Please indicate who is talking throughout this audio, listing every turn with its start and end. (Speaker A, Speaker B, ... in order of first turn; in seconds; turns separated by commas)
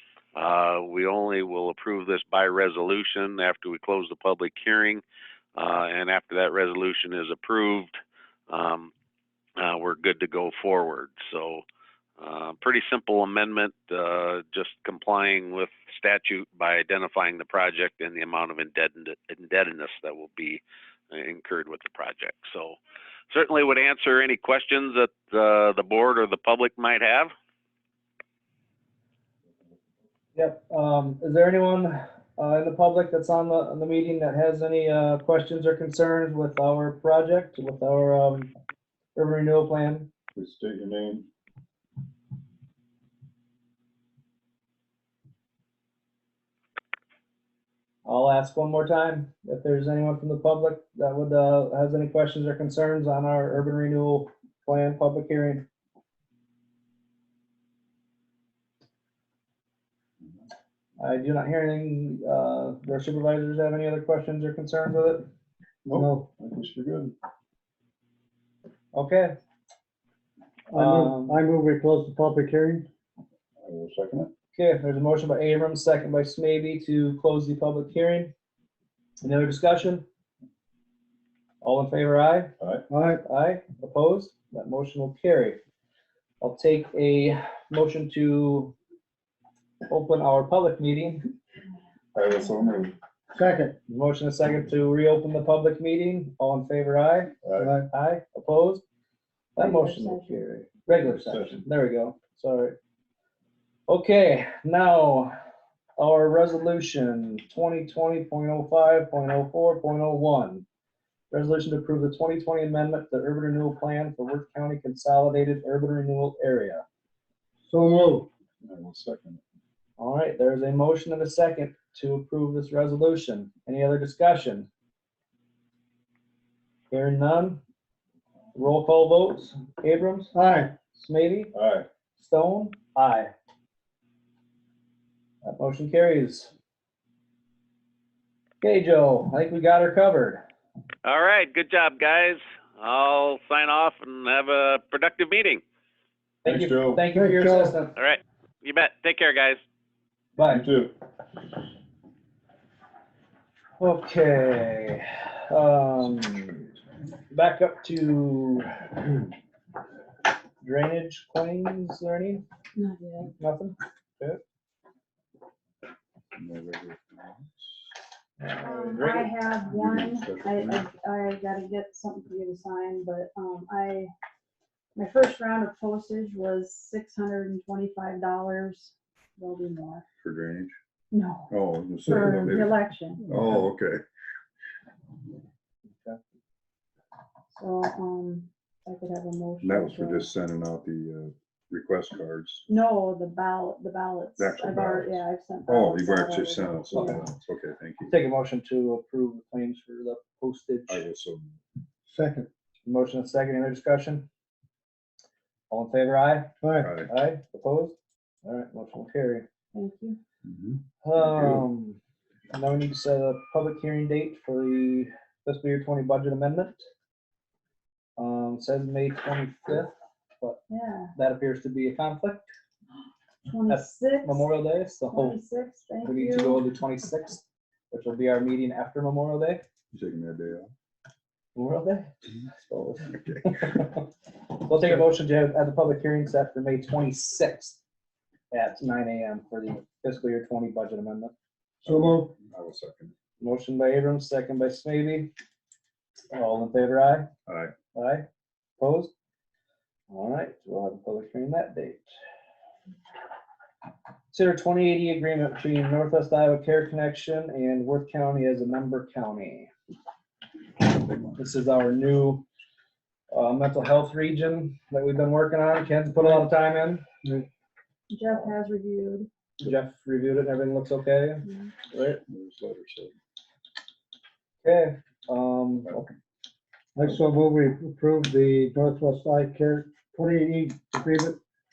Speaker A: 0.4-5.0, Speaker A: 5.6-8.0, Speaker A: 8.5-8.9, Speaker A: 9.6-11.6, Speaker A: 12.2-22.8, Speaker A: 23.3-27.3, Speaker B: 30.4-38.5, Speaker B: 39.1-40.1, Speaker C: 40.4-41.3, Speaker B: 48.0-55.7, Speaker B: 61.0-65.2, Speaker C: 65.8-67.2, Speaker D: 66.0-66.3, Speaker B: 68.9-69.3, Speaker D: 70.7-72.9, Speaker B: 70.8-71.4, Speaker C: 73.6-74.3, Speaker B: 74.5-78.3, Speaker B: 79.2-80.0, Speaker B: 81.6-82.5, Speaker D: 82.9-83.2, Speaker B: 83.2-85.6, Speaker B: 86.4-88.7, Speaker B: 89.9-91.2, Speaker C: 92.2-93.0, Speaker D: 93.4-93.8, Speaker B: 93.9-97.3, Speaker C: 97.4-97.8, Speaker D: 97.6-97.9, Speaker B: 97.9-98.8, Speaker B: 99.6-102.8, Speaker E: 99.6-100.5, Speaker C: 101.0-101.7, Speaker B: 103.9-105.3, Speaker B: 106.0-110.7, Speaker B: 111.3-116.8, Speaker D: 117.7-118.3, Speaker C: 118.6-119.4, Speaker B: 120.0-124.7, Speaker B: 126.9-127.6, Speaker B: 128.6-130.3, Speaker D: 130.3-130.8, Speaker B: 130.9-131.5, Speaker C: 131.6-131.9, Speaker B: 132.2-133.3, Speaker B: 135.4-136.5, Speaker B: 138.6-140.4, Speaker A: 141.0-145.6, Speaker B: 146.4-148.0, Speaker C: 146.5-147.1, Speaker D: 147.1-147.8, Speaker A: 148.0-149.6, Speaker B: 150.4-150.7, Speaker C: 150.5-150.9, Speaker B: 153.8-156.7, Speaker B: 157.3-159.2, Speaker B: 160.6-162.4, Speaker E: 162.8-163.3, Speaker B: 163.4-164.4, Speaker C: 166.4-167.8, Speaker B: 168.4-169.3, Speaker E: 168.6-174.1, Speaker C: 169.7-170.9, Speaker E: 174.9-180.0, Speaker C: 180.2-180.7, Speaker E: 181.1-183.2, Speaker C: 181.5-184.0, Speaker E: 187.5-190.3, Speaker C: 189.6-192.7, Speaker E: 192.7-197.2, Speaker C: 194.4-198.1, Speaker B: 196.9-197.2, Speaker B: 198.1-201.0, Speaker C: 200.9-201.6, Speaker D: 202.1-202.5, Speaker B: 202.9-204.2, Speaker B: 205.7-206.5, Speaker D: 206.6-206.9, Speaker C: 206.8-207.1, Speaker B: 207.1-209.5, Speaker E: 209.7-210.2, Speaker C: 210.4-211.6, Speaker B: 211.0-212.0, Speaker B: 212.5-216.8, Speaker B: 218.2-220.6, Speaker E: 220.7-221.1, Speaker B: 221.2-222.5, Speaker E: 223.5-224.5, Speaker B: 223.7-225.4, Speaker E: 225.1-226.7, Speaker B: 226.0-229.6, Speaker C: 229.9-230.7, Speaker B: 231.6-232.1, Speaker C: 232.6-233.8, Speaker B: 233.6-234.0, Speaker B: 234.6-237.8, Speaker B: 238.5-241.3, Speaker D: 241.8-242.3, Speaker C: 241.8-243.1, Speaker B: 243.4-245.3, Speaker B: 246.3-247.3, Speaker C: 247.5-247.7, Speaker B: 247.9-248.3, Speaker B: 248.8-249.1, Speaker B: 250.1-252.0, Speaker B: 254.3-259.7, Speaker C: 261.1-261.4, Speaker B: 261.4-262.4, Speaker B: 263.3-267.0, Speaker E: 268.1-269.3, Speaker B: 269.6-272.2, Speaker C: 272.3-273.1, Speaker B: 274.6-275.9, Speaker C: 275.9-276.1, Speaker D: 277.0-281.4